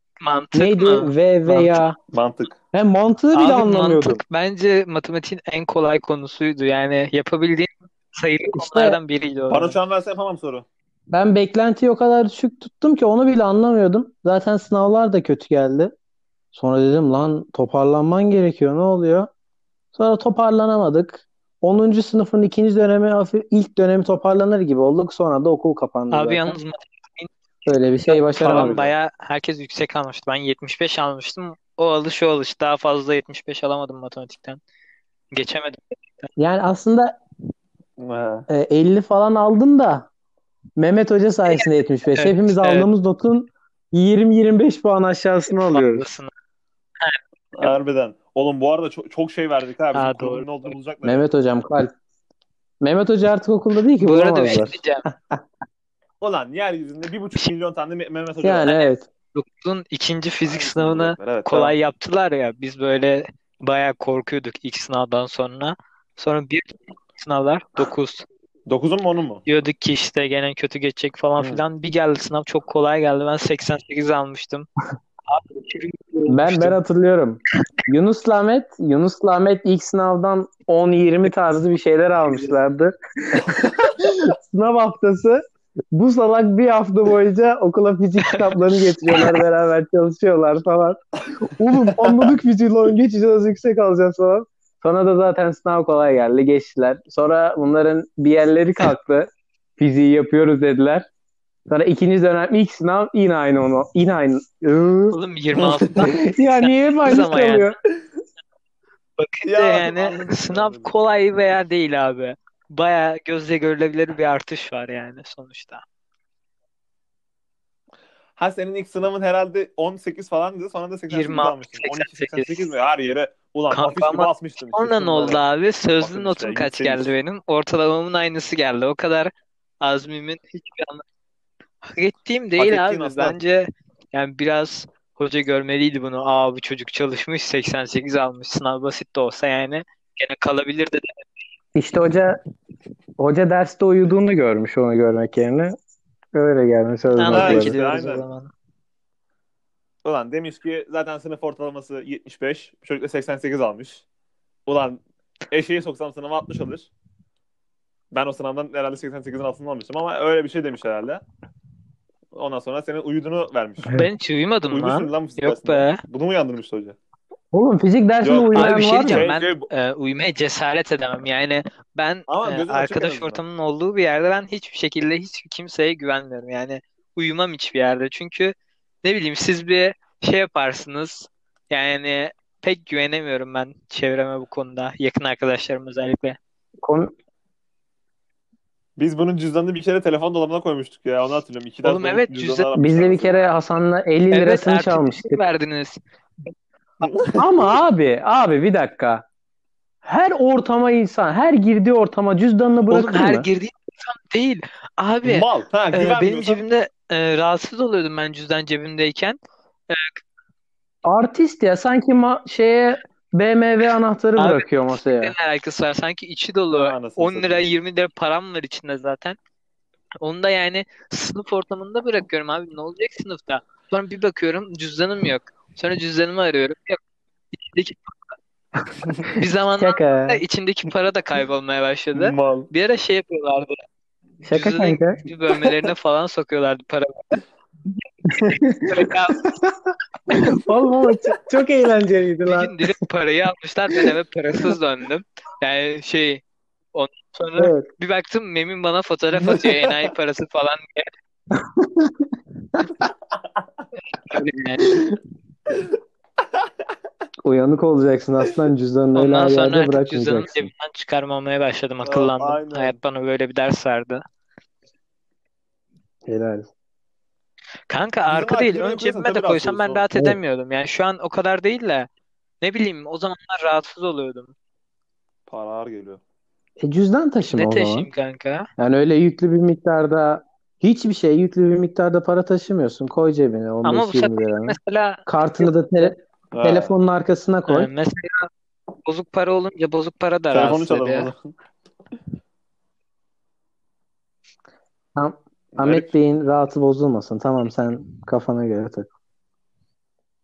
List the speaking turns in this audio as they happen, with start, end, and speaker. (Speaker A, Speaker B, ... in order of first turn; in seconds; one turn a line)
Speaker A: 0.2-1.7
Speaker B: 0.5-2.0
Speaker C: 2.1-2.6
Speaker B: 2.7-4.2
Speaker A: 3.3-9.8
Speaker B: 8.5-9.0
Speaker C: 9.5-10.7
Speaker B: 11.1-15.9
Speaker B: 16.5-19.3
Speaker B: 19.9-26.5
Speaker A: 26.1-27.3
Speaker B: 27.7-28.8
Speaker A: 28.1-34.6
Speaker C: 28.4-28.9
Speaker A: 35.3-36.3
Speaker B: 36.4-37.2
Speaker C: 38.0-38.5
Speaker B: 38.5-40.1
Speaker B: 40.8-46.0
Speaker A: 41.5-42.9
Speaker A: 45.6-46.3
Speaker A: 47.0-47.8
Speaker C: 47.5-51.2
Speaker A: 49.9-50.5
Speaker B: 51.0-51.9
Speaker B: 52.8-55.4
Speaker A: 54.0-55.1
Speaker C: 56.2-58.8
Speaker B: 58.4-59.1
Speaker A: 58.6-68.3
Speaker C: 60.5-61.8
Speaker C: 68.7-69.4
Speaker A: 69.5-74.7
Speaker C: 71.4-71.6
Speaker A: 75.3-76.8
Speaker B: 76.3-101.1
Speaker C: 83.6-83.9
Speaker A: 88.2-89.3
Speaker C: 92.0-92.3
Speaker B: 101.7-107.8
Speaker A: 105.1-107.7
Speaker A: 109.2-115.8
Speaker C: 109.5-110.9
Speaker C: 118.4-125.5
Speaker A: 121.1-122.7
Speaker A: 123.7-131.0
Speaker C: 126.0-127.1
Speaker A: 131.8-141.2
Speaker C: 132.6-133.4
Speaker B: 141.8-142.4
Speaker B: 143.2-145.8
Speaker B: 146.3-148.1
Speaker A: 147.1-148.5
Speaker C: 147.3-148.2
Speaker C: 150.0-154.1
Speaker C: 154.7-156.9
Speaker C: 158.1-161.2
Speaker C: 162.3-164.0
Speaker A: 163.9-166.0
Speaker C: 164.7-167.0
Speaker B: 167.5-169.3
Speaker C: 168.2-169.7
Speaker A: 168.5-186.4
Speaker C: 172.3-173.4
Speaker B: 186.8-187.1
Speaker C: 189.0-193.4
Speaker A: 191.8-192.7
Speaker B: 192.8-195.4
Speaker A: 194.3-196.0
Speaker C: 197.0-197.8
Speaker B: 197.4-199.2
Speaker B: 200.0-203.5
Speaker A: 202.9-209.4
Speaker C: 205.2-206.6
Speaker A: 209.9-210.2
Speaker B: 211.1-215.3
Speaker A: 214.4-219.4
Speaker C: 216.7-217.6
Speaker A: 220.2-227.0
Speaker A: 227.5-228.3
Speaker A: 229.3-233.8
Speaker B: 229.8-230.4
Speaker C: 232.1-232.7
Speaker B: 234.4-235.2
Speaker A: 234.5-237.2
Speaker B: 238.4-238.9
Speaker A: 238.4-239.6
Speaker B: 240.3-242.9
Speaker A: 242.4-246.4
Speaker A: 246.9-251.1
Speaker B: 247.6-247.9
Speaker C: 249.4-250.1
Speaker B: 251.5-252.9
Speaker A: 254.1-255.0
Speaker B: 257.4-260.7
Speaker A: 259.1-264.2
Speaker C: 262.0-263.0
Speaker B: 266.3-266.7
Speaker A: 267.9-272.1
Speaker C: 268.3-270.1
Speaker A: 272.6-274.5
Speaker C: 275.5-276.2
Speaker B: 276.8-278.1
Speaker A: 277.5-278.7
Speaker B: 278.8-287.9
Speaker A: 283.8-285.7
Speaker C: 286.5-287.0
Speaker A: 287.7-288.5
Speaker A: 289.1-291.3
Speaker C: 290.5-291.5
Speaker B: 295.2-299.1
Speaker C: 295.8-296.1